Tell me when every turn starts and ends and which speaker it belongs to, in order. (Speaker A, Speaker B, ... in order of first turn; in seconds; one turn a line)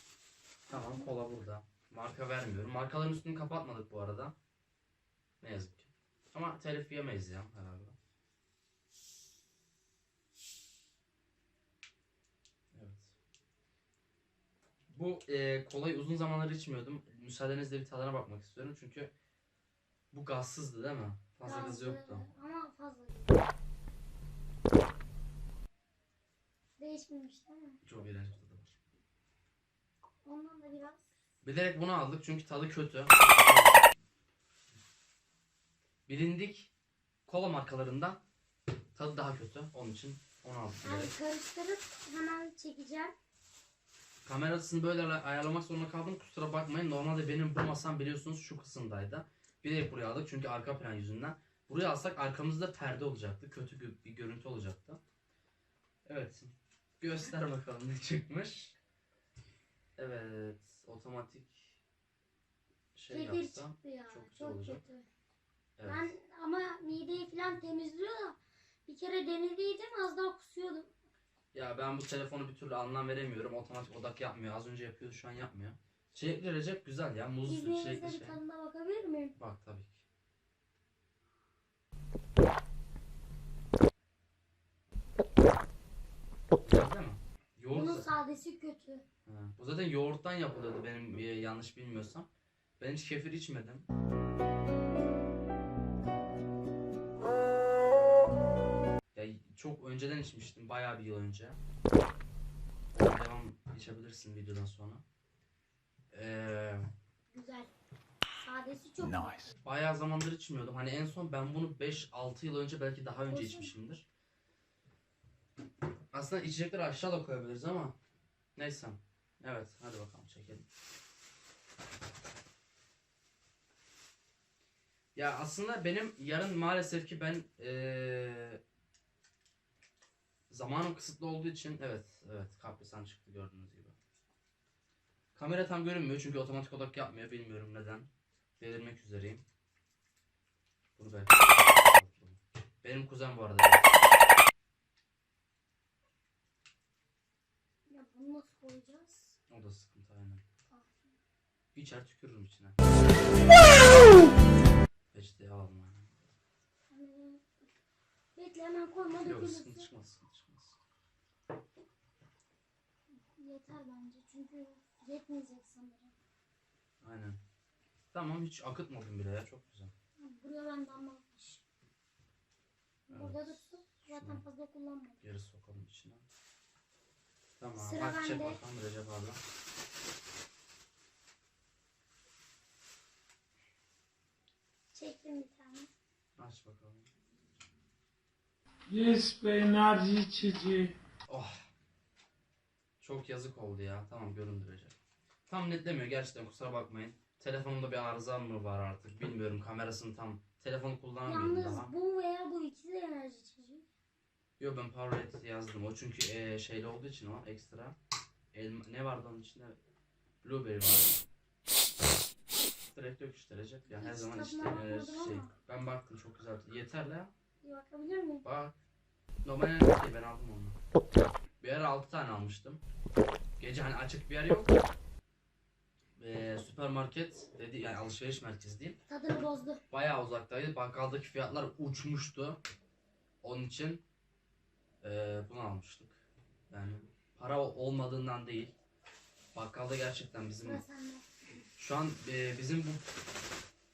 Speaker A: 0.7-4.3
Speaker A: 5.4-8.0
Speaker A: 12.7-13.1
Speaker A: 14.9-19.1
Speaker A: 20.1-22.2
Speaker B: 21.4-23.4
Speaker B: 26.8-27.8
Speaker A: 27.8-28.8
Speaker B: 30.2-31.1
Speaker A: 31.4-34.0
Speaker A: 36.1-36.7
Speaker A: 37.3-38.2
Speaker A: 39.0-41.1
Speaker B: 40.8-43.1
Speaker A: 44.2-55.0
Speaker A: 56.1-58.8
Speaker A: 60.0-61.8
Speaker A: 63.0-64.8
Speaker B: 63.1-65.1
Speaker A: 65.8-66.1
Speaker B: 65.9-70.9
Speaker A: 71.5-78.4
Speaker B: 77.5-79.4
Speaker A: 79.4-80.0
Speaker A: 86.6-88.1
Speaker B: 87.7-89.0
Speaker A: 89.3-92.3
Speaker A: 92.8-93.9
Speaker A: 99.1-101.6
Speaker A: 102.9-105.0
Speaker A: 106.1-106.9
Speaker B: 107.3-107.7
Speaker B: 108.3-109.6
Speaker A: 109.6-114.0
Speaker B: 113.3-113.7
Speaker A: 116.1-118.0
Speaker A: 118.6-120.7
Speaker A: 125.2-128.6
Speaker A: 130.5-133.9
Speaker A: 135.3-138.1
Speaker A: 138.6-139.4
Speaker A: 141.0-144.0
Speaker B: 147.9-149.3
Speaker A: 149.5-150.4
Speaker B: 150.7-151.1
Speaker A: 151.7-153.1
Speaker A: 155.1-156.3
Speaker B: 156.9-157.6
Speaker B: 158.4-159.9
Speaker A: 159.3-160.8
Speaker B: 163.3-166.1
Speaker A: 167.0-167.4
Speaker A: 168.1-169.9
Speaker B: 170.2-171.6
Speaker B: 173.1-175.2
Speaker A: 173.1-173.6
Speaker A: 174.1-174.4
Speaker A: 175.2-176.3
Speaker A: 177.6-179.4
Speaker B: 177.8-178.6
Speaker B: 184.9-185.9
Speaker A: 186.4-187.1
Speaker C: 188.9-190.9
Speaker A: 191.3-191.6
Speaker A: 193.0-194.9
Speaker A: 195.5-201.9
Speaker B: 201.3-203.9
Speaker A: 204.6-208.0
Speaker A: 208.5-209.8
Speaker A: 210.4-211.2
Speaker A: 212.9-217.3
Speaker B: 213.9-215.5
Speaker B: 217.6-218.4
Speaker A: 218.4-218.7
Speaker A: 219.4-220.8
Speaker A: 221.6-222.8
Speaker A: 223.6-224.8
Speaker A: 226.2-229.0
Speaker B: 229.1-229.8
Speaker A: 229.9-232.6
Speaker A: 233.4-234.0
Speaker A: 235.0-238.7
Speaker A: 239.5-240.8
Speaker B: 240.6-241.3
Speaker A: 241.8-243.1